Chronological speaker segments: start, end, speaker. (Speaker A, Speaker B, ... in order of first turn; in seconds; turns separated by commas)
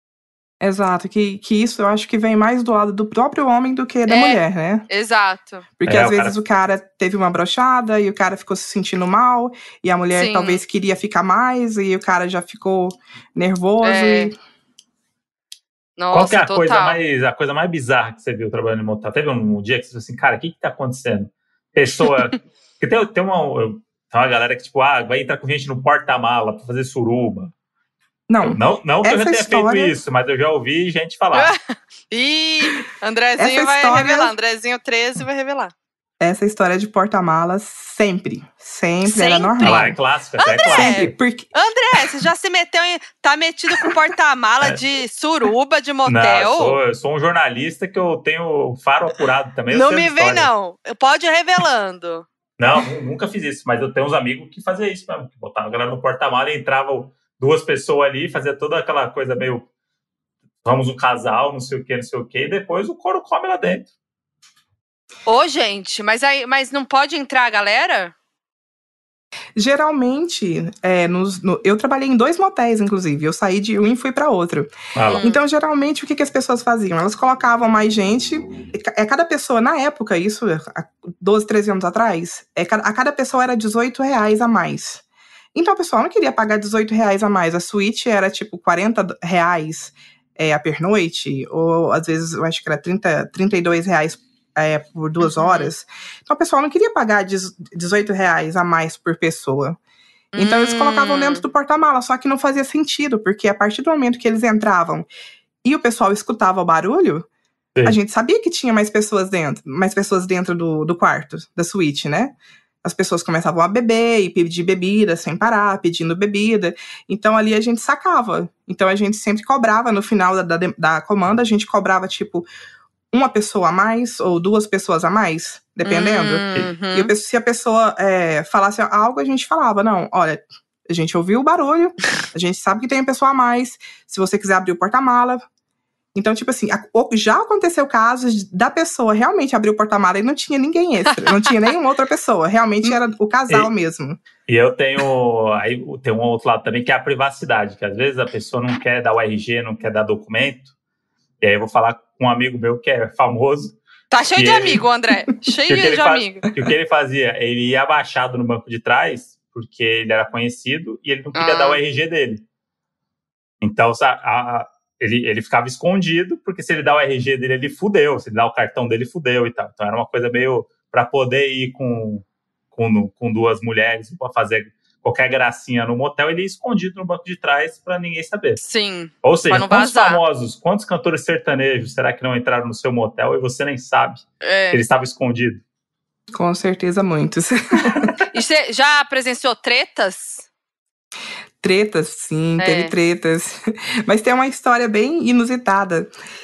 Speaker A: 0.6-4.9, Speaker B: 4.1-5.7, Speaker A: 5.8-14.3, Speaker C: 5.9-6.3, Speaker B: 10.1-10.6, Speaker B: 13.8-14.3, Speaker B: 16.0-17.0, Speaker C: 16.1-27.5, Speaker B: 22.0-22.3, Speaker A: 28.3-30.0, Speaker C: 28.4-31.5, Speaker B: 31.3-35.7, Speaker A: 33.4-34.3, Speaker A: 36.2-40.0, Speaker B: 39.0-39.9, Speaker C: 39.6-41.1, Speaker B: 40.4-46.8, Speaker A: 40.7-41.5, Speaker C: 46.0-50.5, Speaker B: 49.7-52.3, Speaker C: 52.6-59.7, Speaker C: 60.6-63.9, Speaker B: 65.3-68.1, Speaker A: 69.6-85.0, Speaker C: 75.0-75.2, Speaker B: 75.1-75.4, Speaker A: 85.5-99.8, Speaker B: 95.2-95.7, Speaker B: 100.3-101.4, Speaker A: 100.4-105.1, Speaker A: 105.6-107.3, Speaker A: 107.8-122.5, Speaker A: 123.1-135.4, Speaker B: 125.8-127.1, Speaker A: 136.2-144.2, Speaker B: 141.1-141.6, Speaker C: 144.5-150.7, Speaker C: 151.4-153.8, Speaker B: 154.1-156.5, Speaker C: 154.4-154.8, Speaker C: 155.7-162.4, Speaker B: 161.3-161.8, Speaker C: 163.6-178.6, Speaker B: 178.6-180.2, Speaker C: 179.2-185.6, Speaker B: 184.4-184.8, Speaker A: 186.3-188.1, Speaker B: 188.3-190.4, Speaker A: 191.6-196.1, Speaker B: 192.6-192.9